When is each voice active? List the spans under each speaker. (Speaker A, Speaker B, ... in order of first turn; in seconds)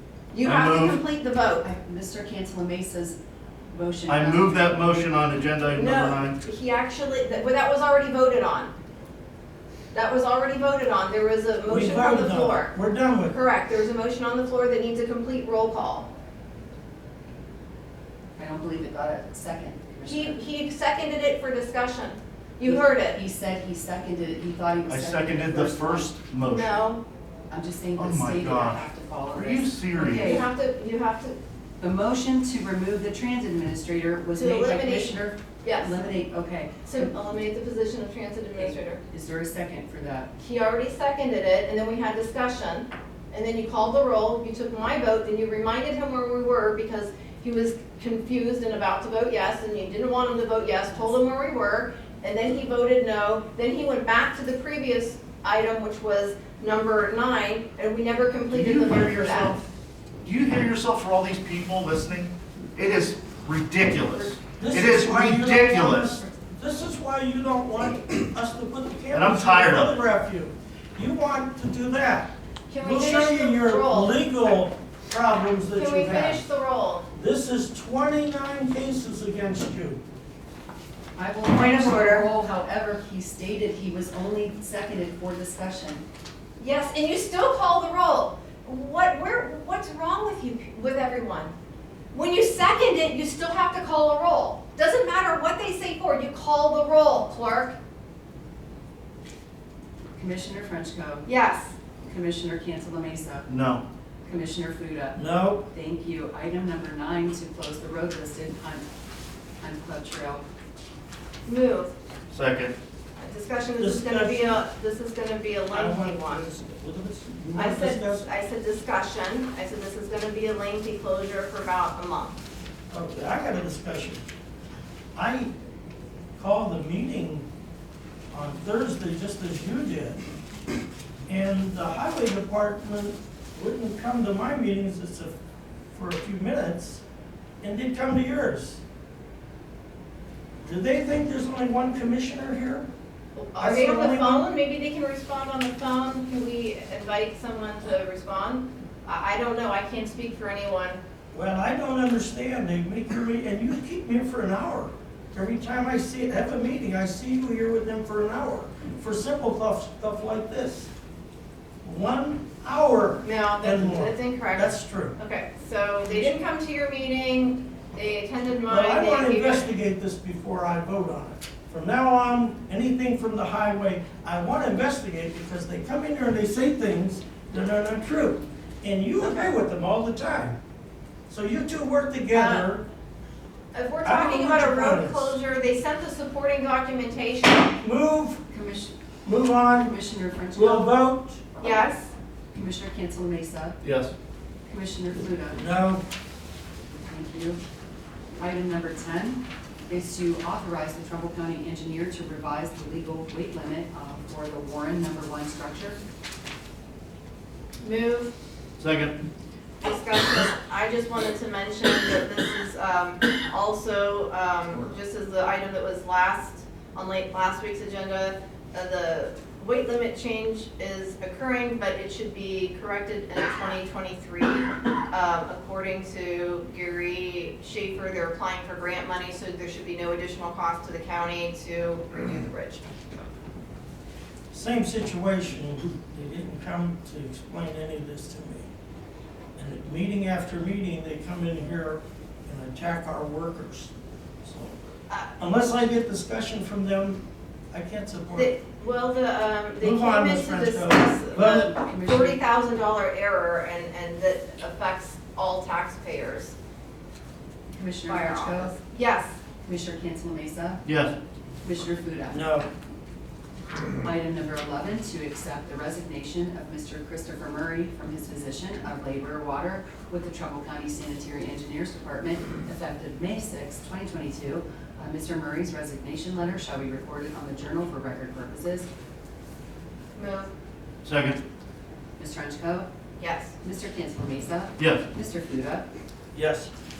Speaker A: 0.3-1.6, 5.7-8.7, 9.9-12.7, 13.3-16.1, 20.1-23.2, 26.4-27.0, 30.0-31.4, 34.3-36.0, 36.9-39.0, 40.4-59.6, 72.7-74.2, 75.7-77.0, 81.5-82.3, 86.6-91.5, 92.1-97.8, 101.2-101.7, 111.4-111.9, 113.2-116.5, 117.5-122.4, 143.3-151.0, 163.2-169.7, 179.2-179.6, 182.3-182.7, 183.7-187.7, 191.6-192.1, 207.8-208.3, 209.8-232.8, 248.3-256.5, 258.1-259.3, 280.1-280.5, 283.2-283.5
Speaker B: 0.4-1.0, 4.1-6.4, 24.9-26.8, 28.0-30.4, 58.5-59.5, 60.2-66.2, 69.1-70.0, 103.5-103.8, 112.3-112.7, 193.8-194.1, 208.8-209.2, 260.9-261.1, 281.0-281.4, 284.8-285.0
Speaker C: 1.6-3.2, 3.7-4.8, 18.4-20.4, 22.6-26.1, 27.5-30.5, 31.8-37.1, 38.5-40.3, 81.2-86.0, 100.2-101.2, 102.0-103.5, 104.2-108.8, 109.6-110.4, 188.5-188.9, 189.7-190.9, 192.5-193.8, 194.7-195.6, 197.0-197.6, 198.4-206.0, 251.4-252.4, 257.7-258.7, 259.6-260.8, 261.6-262.5, 264.0-278.9, 282.2-282.9, 283.6-285.8
Speaker D: 11.6-13.3, 64.5-76.4, 77.1-80.0, 105.1-105.7, 113.8-114.6, 115.7-118.3, 122.9-124.2, 125.2-125.5, 126.4-127.4, 128.3-130.2, 131.3-135.3, 135.9-137.0, 137.6-138.8, 140.6-142.9, 143.6-144.4, 151.3-160.9, 161.8-165.2, 168.7-180.6, 181.3-182.8, 184.0-185.3, 187.8-188.4, 189.2-189.9, 190.5-191.4, 195.5-196.0, 234.5-238.7, 239.6-243.9, 244.4-244.8, 245.4-247.2, 247.7-248.5, 249.8-251.7, 262.3-262.6, 286.3-286.7